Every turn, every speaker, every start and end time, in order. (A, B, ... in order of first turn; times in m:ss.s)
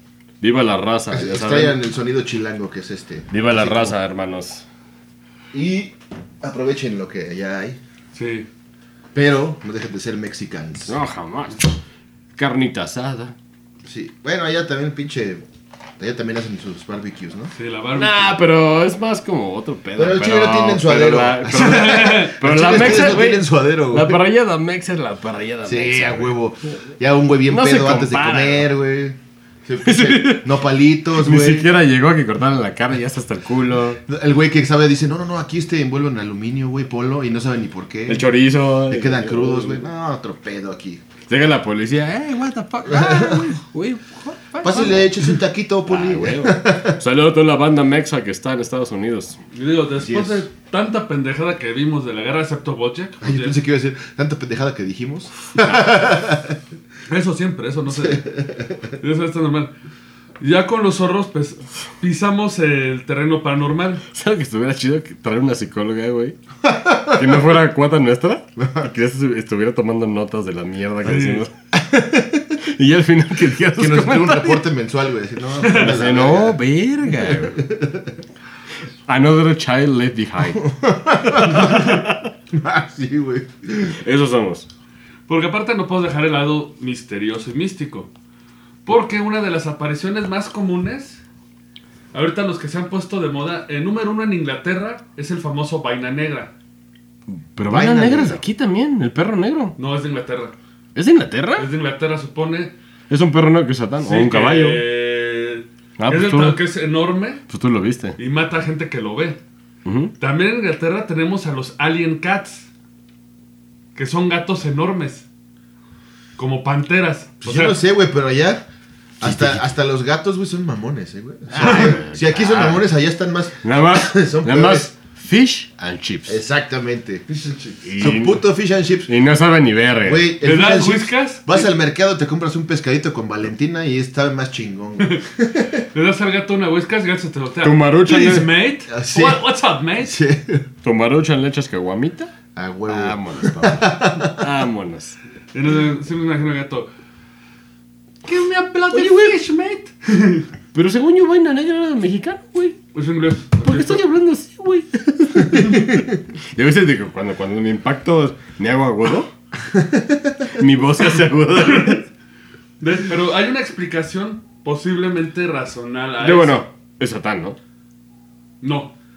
0:00.4-0:01.8 A
0:01.1-0:04.0 B
0:03.3-0:04.6 A
0:05.5-0:07.8 B
0:08.1-0:08.5 C
0:09.1-0:11.0 B
0:10.9-0:11.8 A
0:12.4-0:13.3 A
0:13.8-0:15.4 B
0:16.0-0:17.5 B
0:17.5-0:18.4 C
0:17.9-0:26.4 A
0:20.0-0:24.2 B
0:21.5-0:22.4 C
0:25.6-0:31.7 B
0:27.5-0:28.7 A
0:29.8-0:30.5 A
0:31.1-0:34.0 A
0:34.0-0:38.3 B
0:38.1-0:39.8 A
0:38.9-0:41.0 B
0:41.3-0:49.4 A
0:42.9-0:43.5 B
0:44.6-0:47.0 B
0:49.5-0:53.6 C
0:50.0-0:50.4 B
0:53.2-0:56.6 B
0:57.1-0:58.3 C
0:57.9-0:58.9 B
0:59.0-0:59.7 C
1:00.4-1:04.0 C
1:04.1-1:06.4 A
1:06.6-1:07.4 B
1:07.0-1:11.5 A
1:08.6-1:08.9 B
1:11.0-1:11.4 C
1:11.7-1:12.5 B
1:12.6-1:14.6 A
1:13.7-1:18.1 B
1:15.6-1:15.9 C
1:15.7-1:17.6 A
1:19.1-1:20.7 A
1:20.6-1:23.9 B
1:21.3-1:22.2 A
1:21.6-1:21.9 C
1:23.9-1:24.7 A
1:25.3-1:28.1 C
1:28.8-1:31.2 C
1:32.1-1:36.5 C
1:37.3-1:39.8 A
1:37.7-1:38.4 B
1:39.8-1:40.5 C
1:40.9-1:41.7 A
1:41.6-1:42.7 C
1:43.1-1:44.8 A
1:44.0-1:47.4 C
1:46.0-1:46.6 A
1:47.5-1:48.2 A
1:48.2-1:49.4 C
1:49.8-1:50.1 A
1:50.2-1:52.7 C
1:53.9-1:55.2 C
1:56.4-1:57.8 C
1:57.4-1:58.6 B
1:59.2-2:04.9 B
1:59.2-1:59.6 A
2:01.5-2:02.8 A
2:01.6-2:01.9 C
2:03.6-2:06.4 A
2:06.2-2:09.1 B
2:07.8-2:08.4 A
2:09.0-2:10.3 A
2:10.0-2:15.8 B
2:10.4-2:11.7 C
2:15.0-2:15.2 C
2:15.9-2:20.2 C
2:17.6-2:18.5 A
2:18.9-2:19.4 B
2:20.0-2:20.6 B
2:20.8-2:22.3 A
2:22.5-2:24.4 B
2:22.9-2:25.2 A
2:25.5-2:26.9 C
2:28.2-2:30.5 C
2:28.9-2:29.4 A
2:30.7-2:32.8 A
2:32.9-2:34.0 C
2:33.6-2:39.3 A
2:35.5-2:36.0 B
2:39.7-2:40.4 B
2:40.5-2:42.0 A
2:41.7-2:42.0 C
2:42.8-2:46.6 C
2:46.2-2:47.6 A
2:48.6-2:48.9 C